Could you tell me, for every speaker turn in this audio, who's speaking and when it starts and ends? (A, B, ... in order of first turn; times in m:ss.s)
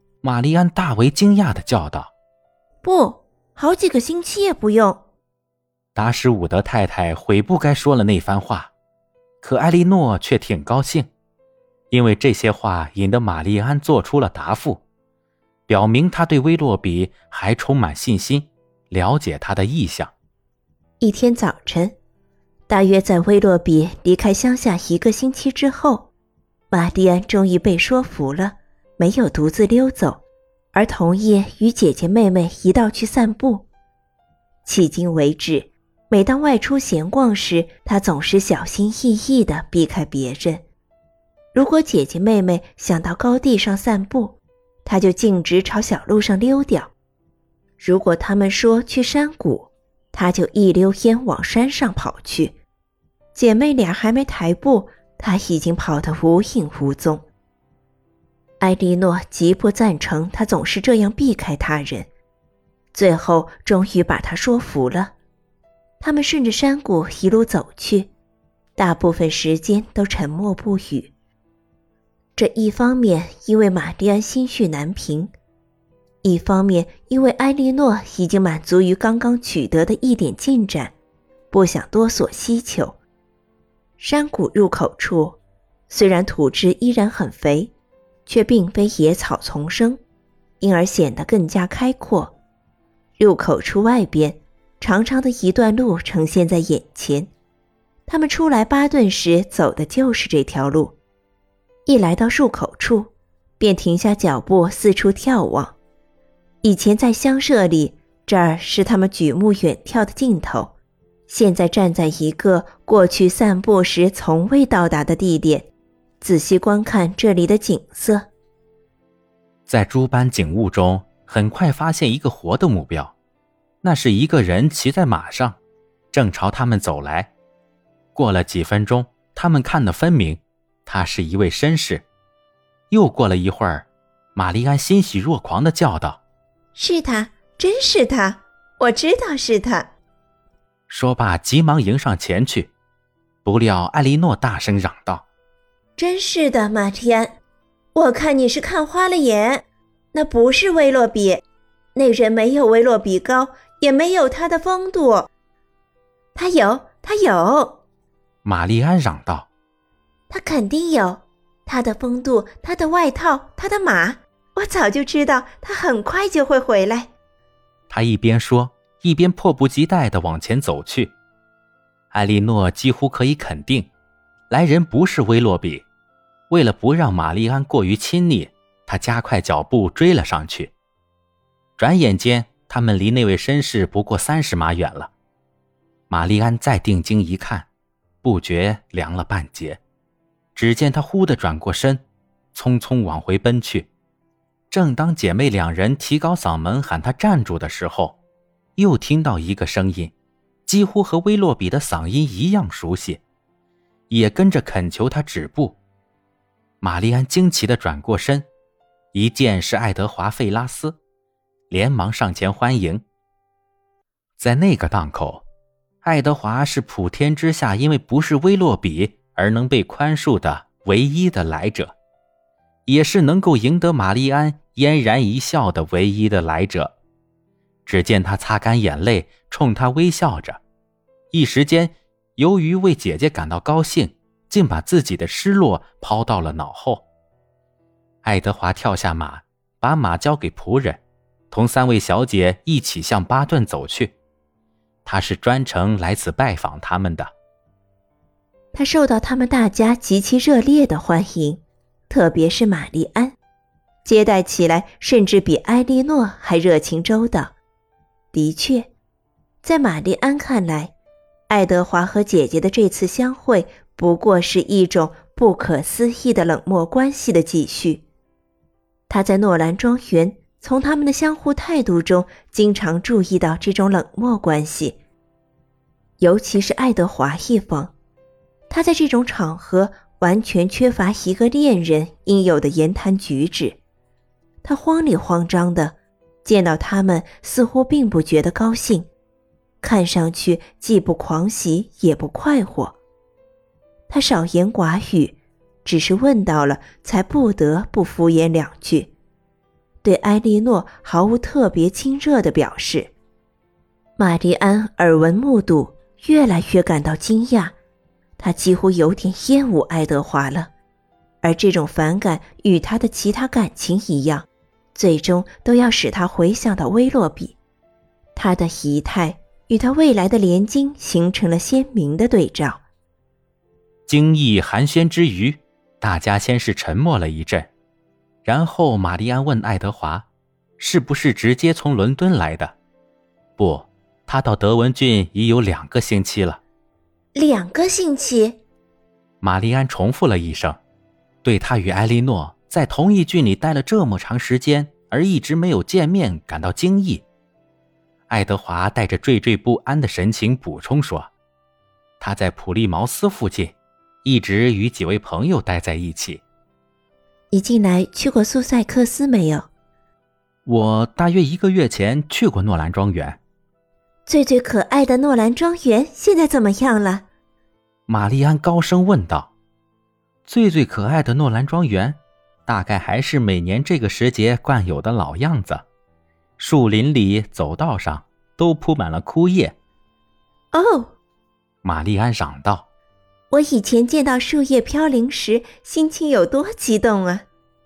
0:00.2-0:02.1 A
0:02.8-0:05.0 B
0:05.9-0:08.7 A
0:09.4-0:11.1 A
0:11.9-0:14.8 A
0:15.7-0:20.1 A
0:21.0-0:22.0 B
0:22.7-0:26.1 B
0:26.7-0:30.2 B
0:30.7-0:33.6 B
0:34.6-0:40.6 B
0:41.5-0:46.9 B
0:47.8-0:52.6 B
0:53.3-0:57.2 B
0:58.6-1:02.1 B
1:02.9-1:05.1 B
1:06.0-1:08.1 B
1:08.8-1:11.1 B
1:12.4-1:15.3 B
1:16.2-1:20.9 B
1:21.5-1:23.0 B
1:24.0-1:25.4 B
1:25.9-1:27.7 B
1:28.2-1:30.0 B
1:30.6-1:32.4 B
1:33.2-1:37.3 B
1:38.0-1:41.0 B
1:41.8-1:45.8 B
1:46.6-1:50.7 B
1:51.3-1:55.7 B
1:56.2-1:58.3 B
1:59.7-2:03.1 A
2:03.8-2:05.6 A
2:06.1-2:07.3 A
2:08.1-2:12.0 A
2:12.9-2:16.2 A
2:16.7-2:19.9 B
2:20.9-2:22.7 A
2:23.4-2:25.2 A
2:26.0-2:27.4 B
2:27.9-2:31.4 B
2:31.9-2:35.3 B
2:36.3-2:37.8 B
2:38.4-2:39.5 A
2:40.3-2:47.1 B
2:47.9-2:51.1 A
2:52.1-2:53.9 A
2:54.5-2:55.8 A
2:56.5-3:00.7 A
3:01.8-3:05.1 A
3:06.1-3:07.7 A
3:08.2-3:09.8 A
3:10.6-3:12.0 A
3:12.5-3:13.9 A
3:14.7-3:18.2 A
3:18.8-3:20.1 A
3:20.7-3:23.2 A
3:24.1-3:25.8 A
3:26.8-3:28.4 A
3:29.1-3:31.0 A
3:31.7-3:33.0 A
3:34.4-3:35.4 A
3:36.0-3:41.9 A
3:42.9-3:46.9 A
3:47.8-3:50.6 A
3:51.3-3:57.0 A
3:58.2-4:01.0 A
4:01.5-4:04.1 A
4:05.0-4:07.3 A
4:08.7-4:13.3 B
4:14.0-4:17.5 B
4:18.3-4:18.9 B
4:19.6-4:20.9 B
4:21.5-4:28.0 B
4:29.1-4:35.0 B
4:36.2-4:37.9 B
4:38.7-4:43.8 B
4:44.6-4:49.1 B
4:49.8-4:53.0 B
4:54.1-4:59.1 B
5:00.0-5:03.1 B
5:04.2-5:07.8 B
5:08.4-5:10.7 B
5:11.4-5:17.6 B
5:18.4-5:22.8 B
5:24.1-5:27.7 A
5:28.4-5:30.3 A
5:30.8-5:32.8 A
5:33.6-5:36.6 A
5:37.3-5:38.6 B
5:39.4-5:40.8 A
5:41.4-5:47.2 A
5:48.3-5:51.3 A
5:52.2-5:56.4 A
5:57.5-5:59.7 B
6:00.6-6:03.4 A
6:04.2-6:07.2 B
6:08.1-6:09.5 A
6:10.4-6:15.8 A
6:16.6-6:19.8 A
6:20.7-6:21.1 B
6:21.8-6:22.8 A
6:23.5-6:27.4 B